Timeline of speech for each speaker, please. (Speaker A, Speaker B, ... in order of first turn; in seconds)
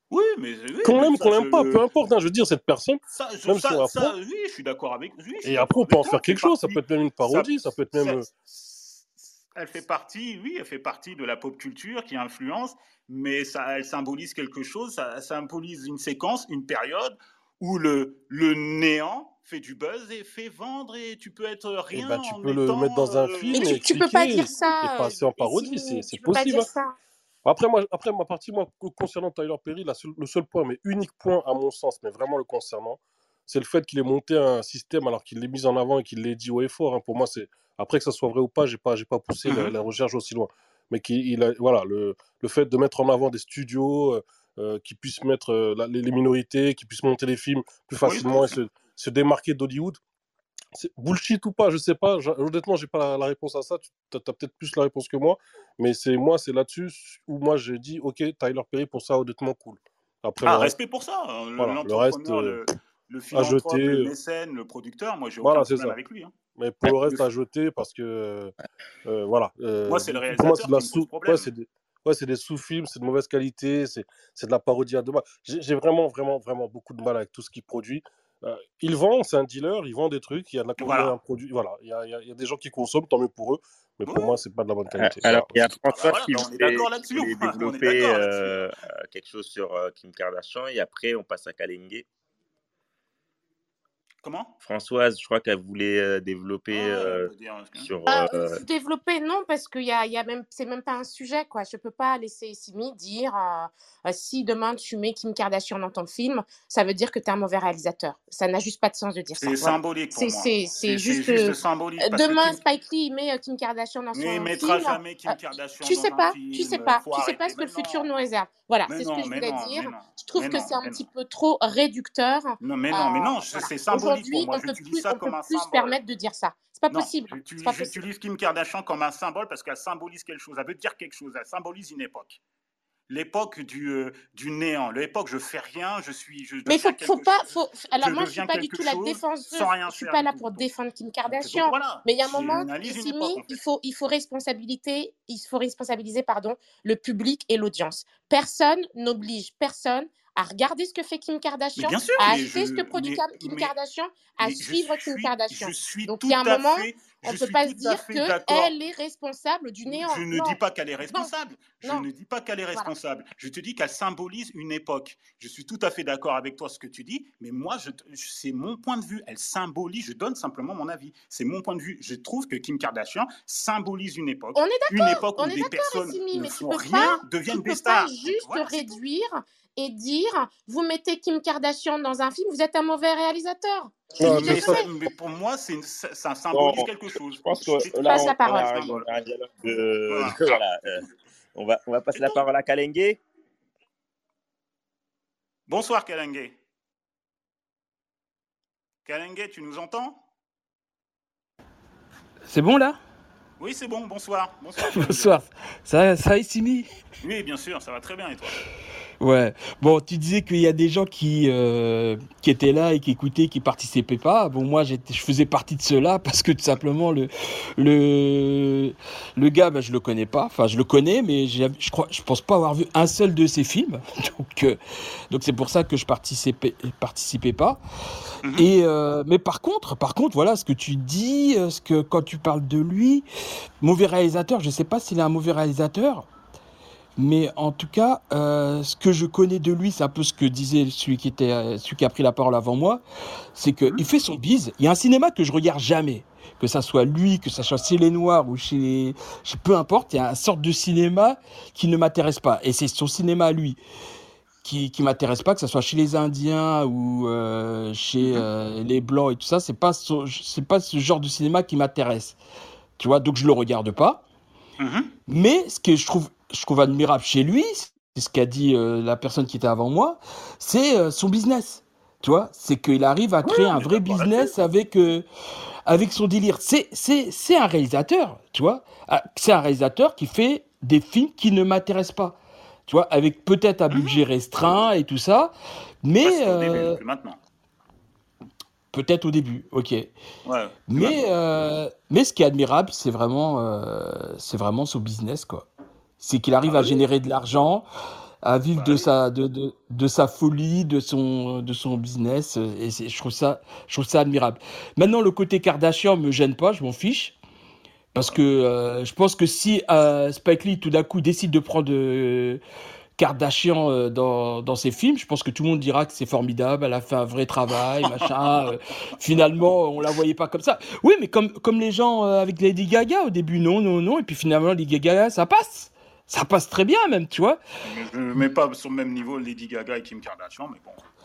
Speaker A: 0.1-1.8, 3.1-23.8, 39.5-39.7, 48.0-48.6, 60.4-66.3, 66.8-67.3, 69.9-71.5, 80.8-81.1, 84.1-84.4, 85.9-88.6, 94.2-94.5, 96.7-97.9, 109.4-112.6, 114.1-118.1, 118.9-121.0, 122.6-126.0, 126.9-132.4, 133.1-137.5, 138.0-140.7, 141.3-143.6, 151.8-153.7, 154.4-158.7, 159.9-179.0, 184.2-189.1, 190.1-190.6, 195.7-196.6, 199.1-200.2, 203.6-205.4, 207.2-208.6, 264.8-265.1, 273.4-274.6, 283.9-284.2, 286.2-287.4, 290.4-291.2, 296.6-297.1, 298.8-299.1, 327.8-331.0
Speaker B: 0.8-4.1, 5.4-8.3, 21.9-26.7, 27.4-50.0, 50.8-60.7, 61.6-62.6, 63.3-64.1, 65.4-66.0, 66.6-68.5, 69.0-86.1, 184.2-184.8
Speaker C: 23.5-26.9, 98.1-128.0, 136.7-161.3, 174.6-184.9, 187.9-188.8
Speaker D: 85.0-92.1, 94.6-98.6, 186.5-193.2
Speaker E: 202.4-203.0, 204.8-206.9, 209.2-224.8, 225.3-227.8, 228.6-233.3, 233.8-236.3, 237.2-243.0, 243.6-253.8, 254.6-262.4, 263.0-264.2, 265.3-275.3, 275.9-287.0, 288.9-290.1, 290.9-295.7, 296.2-297.9, 298.4-307.4, 308.1-312.6, 313.2-327.6